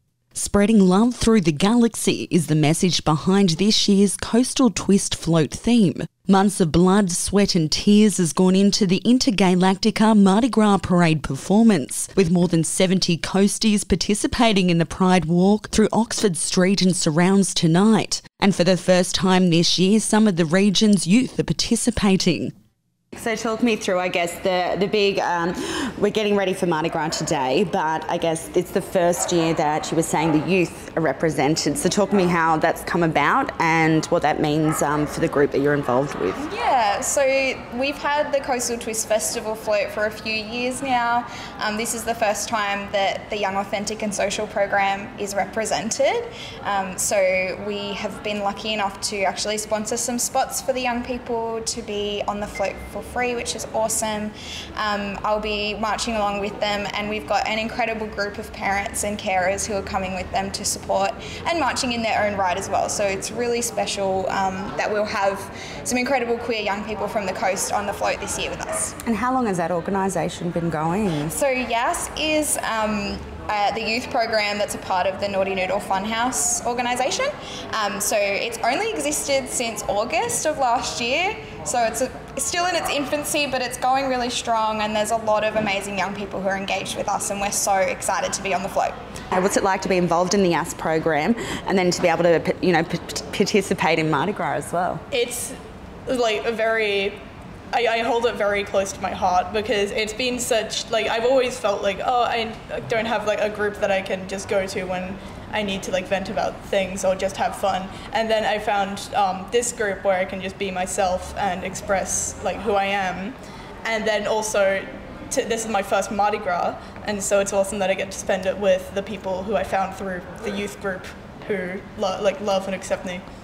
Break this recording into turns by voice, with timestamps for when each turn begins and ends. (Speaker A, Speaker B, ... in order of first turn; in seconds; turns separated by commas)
Speaker A: 0.3-22.5, Speaker A: 23.1-36.5, Speaker B: 36.4-69.0, Speaker A: 69.0-71.4, Speaker B: 71.3-88.9, Speaker A: 89.3-95.0, Speaker C: 95.1-95.6, Speaker C: 96.1-97.2, Speaker C: 97.7-123.2